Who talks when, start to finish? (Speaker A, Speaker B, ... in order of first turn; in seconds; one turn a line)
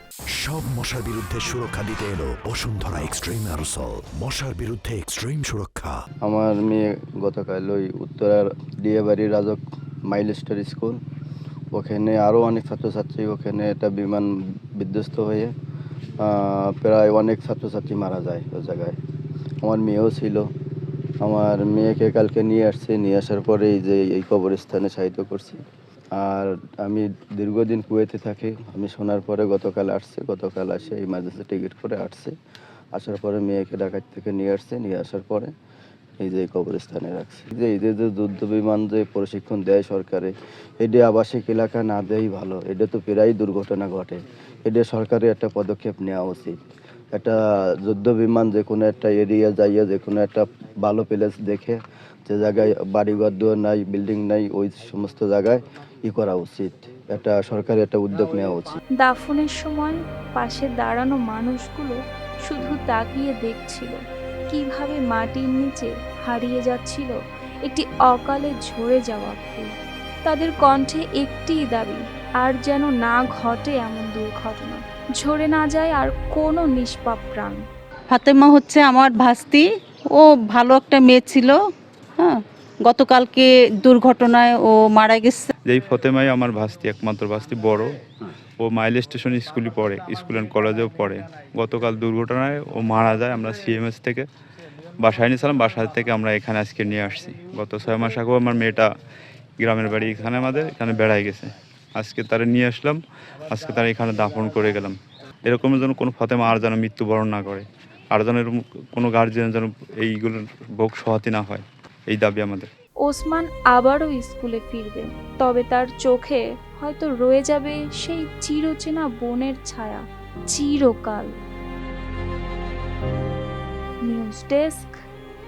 Speaker A: 0.3-6.0
Speaker B: 6.2-11.0
Speaker B: 11.7-15.5
Speaker B: 16.2-19.0
Speaker B: 19.6-20.5
Speaker B: 21.2-25.6
Speaker B: 26.1-32.3
Speaker B: 32.9-35.5
Speaker B: 36.2-46.6
Speaker B: 47.1-58.8
Speaker C: 59.0-69.7
Speaker C: 70.2-77.6
Speaker D: 78.2-79.3
Speaker D: 80.6-81.0
Speaker D: 83.9-84.3
Speaker E: 85.7-88.0
Speaker E: 88.6-94.3
Speaker E: 95.0-98.9
Speaker E: 99.6-112.7
Speaker C: 113.0-121.3
Speaker C: 124.0-125.0